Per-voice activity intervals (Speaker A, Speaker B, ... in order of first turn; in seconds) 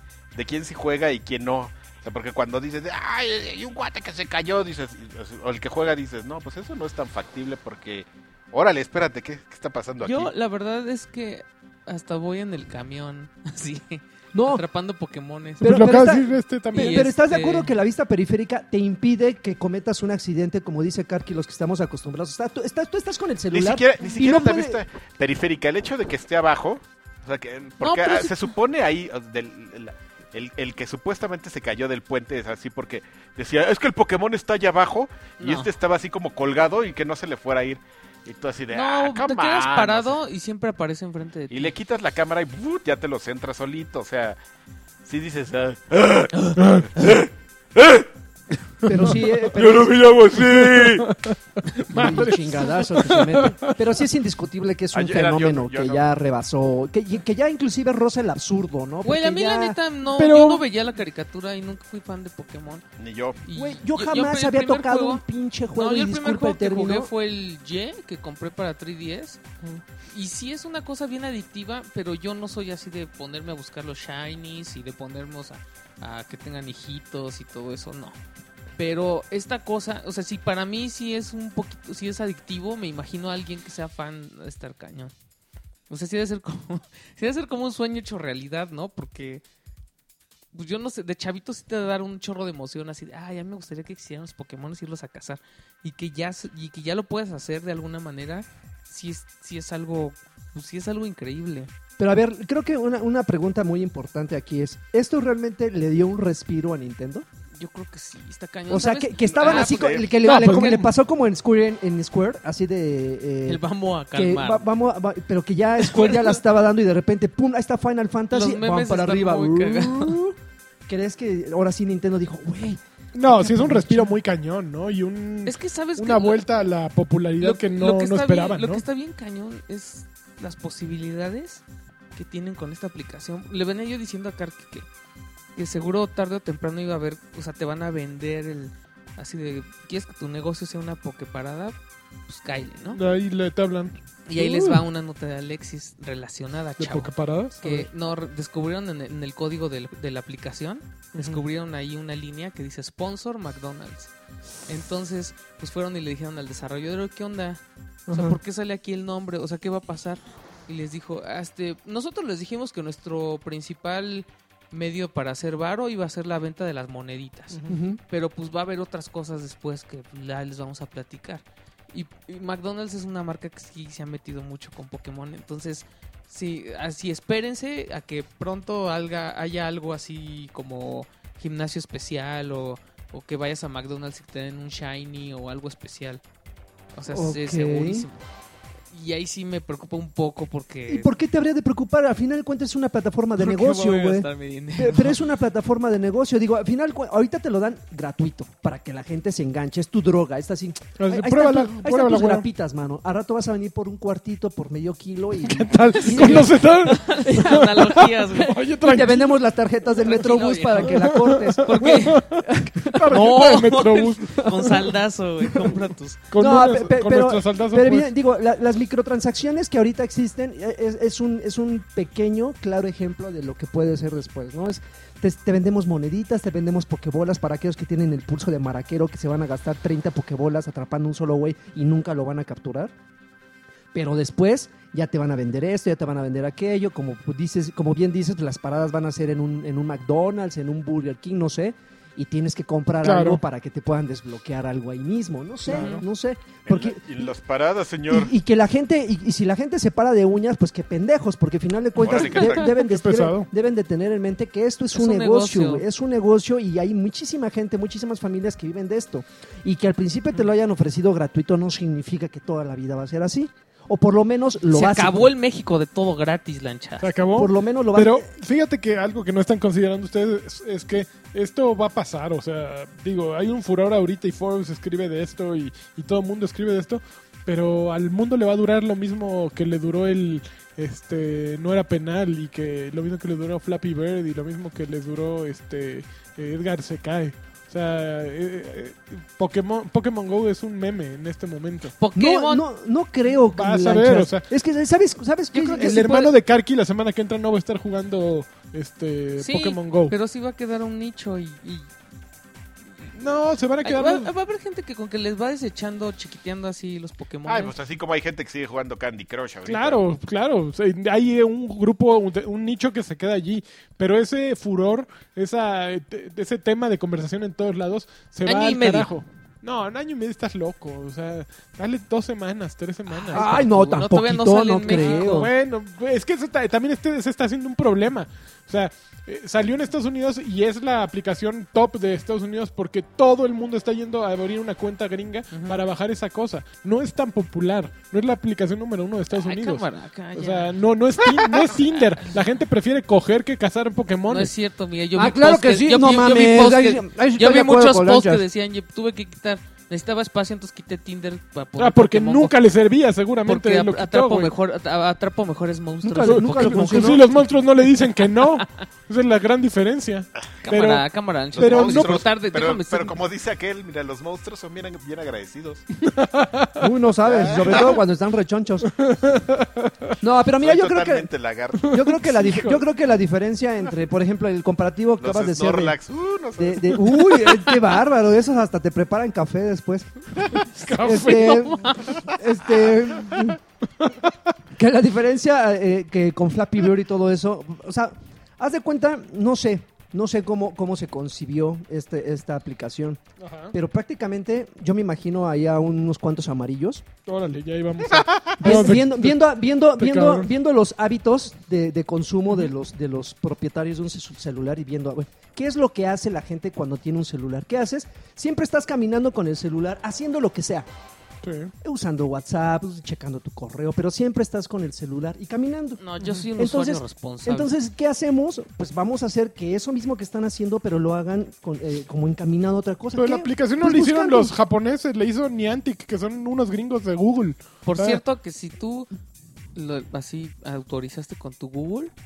Speaker A: 0.3-10.3, 23.5-40.1, 41.5-44.4, 45.0-48.1, 49.5-51.1, 54.9-56.0, 63.0-63.4, 109.3-110.1, 246.7-248.3, 252.0-252.7, 307.5-310.1, 361.5-365.9, 367.2-368.0, 370.6-372.0, 375.2-377.1
Speaker B: 10.0-15.6, 16.7-17.7, 27.8-28.5, 35.4-35.7, 38.7-41.7, 59.0-62.8, 63.5-65.2, 65.8-69.4, 70.1-78.2, 78.8-85.1, 85.9-89.4, 90.5-101.7, 107.5-110.0, 113.5-114.7, 115.8-116.4, 118.3-120.2, 125.5-126.4, 127.4-131.6, 132.2-134.9, 135.6-141.8, 142.3-143.0, 144.3-154.1, 154.7-186.2, 186.9-188.2, 188.9-191.1, 193.4-195.2, 205.9-208.6, 210.0-212.4, 213.1-216.2, 245.7-246.0, 254.9-255.8, 264.7-267.1, 292.0-292.6, 295.5-296.3, 299.4-301.9, 303.8-307.8, 318.4-319.1, 323.1-325.4, 335.5-335.8, 339.3-340.7, 344.3-352.6, 353.5-357.2, 360.6-363.1, 381.0-382.2, 416.0-417.7, 427.9-429.1, 429.8-432.1
Speaker C: 14.3-14.6, 15.6-24.8, 48.9-50.1, 51.9-59.8, 63.5-67.1, 102.0-107.3, 108.7-113.6, 114.2-124.2, 158.1-158.4, 167.7-168.0, 187.1-188.1, 190.9-207.7, 208.4-213.4, 214.4-214.7, 216.4-232.9, 233.9-247.3, 248.1-265.3, 267.3-268.3, 292.1-296.3, 323.3-325.5, 345.1-348.4, 356.0-357.3, 366.8-368.9, 370.2-371.3, 371.8-376.0, 376.6-380.1, 380.9-383.6, 384.8-393.2, 393.7-397.1, 398.6-410.9, 411.8-416.0, 416.6-424.6
Speaker D: 15.6-17.1, 46.6-47.1, 50.4-53.8, 60.1-60.6, 110.2-110.9, 123.1-128.8, 142.9-144.8, 146.8-147.9, 151.1-151.4, 201.0-202.5, 205.4-209.3, 210.8-214.9, 216.3-218.1, 243.0-243.4, 245.7-246.0, 252.3-253.5, 267.0-291.9, 293.5-294.5, 295.7-300.1, 303.1-304.3, 309.7-324.0, 324.9-344.5, 351.8-354.5, 356.2-361.1, 361.6-362.2, 366.0-366.9, 368.9-370.1, 371.8-372.8, 380.6-381.8, 384.0-384.3, 393.4-393.8, 397.3-399.4, 400.0-400.5, 411.4-411.7, 416.2-416.5, 423.2-428.2